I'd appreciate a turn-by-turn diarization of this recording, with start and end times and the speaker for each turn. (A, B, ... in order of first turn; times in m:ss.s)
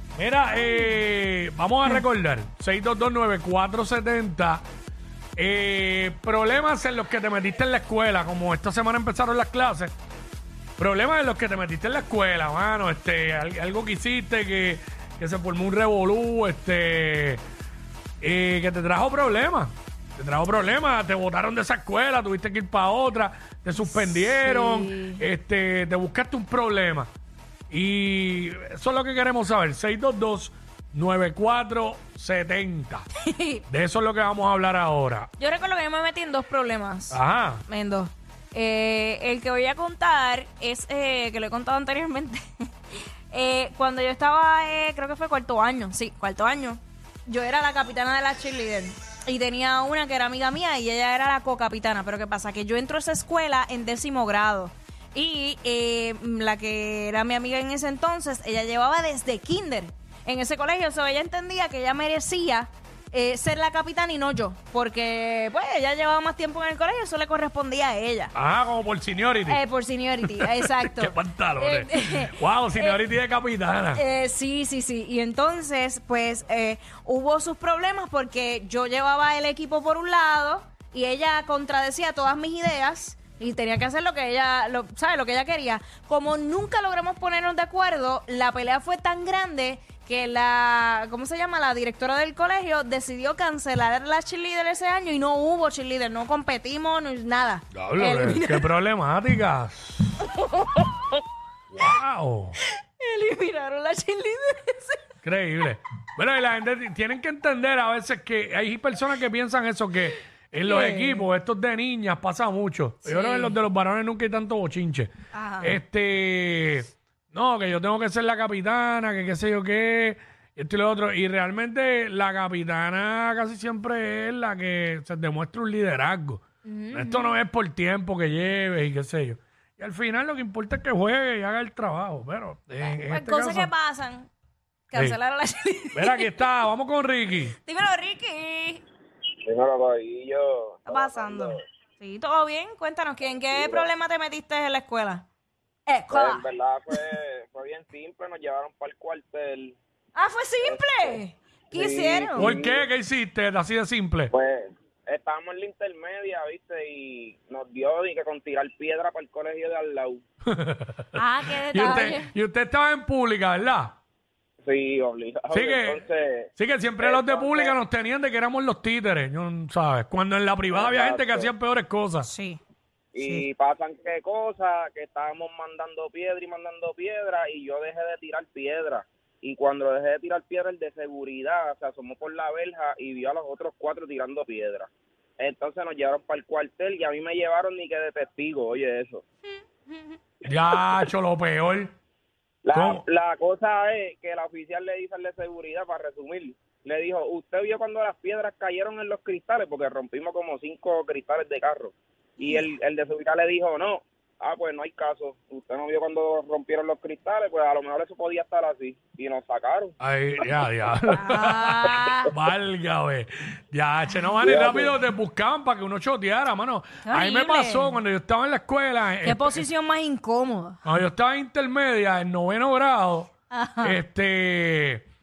0:00.2-0:04.6 A
0:00.5-0:00.9 B
0:05.4-0:09.9 A
0:10.8-0:17.4 A
0:18.2-0:27.1 A
0:23.8-0:25.2 B
0:27.7-0:33.0 A
0:33.2-0:33.6 B
0:33.7-0:35.3 A
0:35.4-0:42.4 B
0:37.1-0:37.6 A
0:43.3-1:08.3 B
1:08.3-1:09.6 A
1:09.5-1:13.0 B
1:10.3-1:14.0 A
1:13.9-1:38.7 B
1:37.7-1:40.2 A
1:41.7-1:42.6 A
1:43.0-1:45.0 B
1:45.2-1:55.1 A
1:50.6-1:51.2 B
1:53.0-1:53.5 B
1:55.3-1:55.8 B
1:55.6-2:13.7 A
2:06.6-2:07.3 B
2:12.8-2:14.3 B
2:14.9-2:16.3 B
2:15.9-2:17.5 A
2:17.6-2:18.8 B
2:19.4-2:21.6 C
2:20.9-2:25.2 B
2:23.3-2:23.9 C
2:25.9-2:26.4 B
2:26.1-2:29.8 C
2:30.1-2:32.5 B
2:30.6-2:32.8 C
2:32.4-2:34.3 A
2:34.3-2:40.2 C
2:40.5-2:44.0 A
2:41.2-2:42.3 B
2:44.6-2:46.5 C
2:45.5-2:52.3 A
2:47.0-2:47.7 C
2:50.7-2:51.5 C
2:52.2-2:52.6 B
2:53.1-3:09.2 C
2:53.2-2:53.4 B
3:10.4-3:11.9 A
3:12.6-3:29.9 C
3:12.7-3:13.0 A
3:30.0-3:39.6 A
3:31.1-3:32.3 B
3:34.4-3:35.0 C
3:37.0-3:38.0 B
3:39.2-3:40.8 B
3:40.8-3:43.3 A
3:43.5-3:43.9 B
3:43.8-3:45.1 A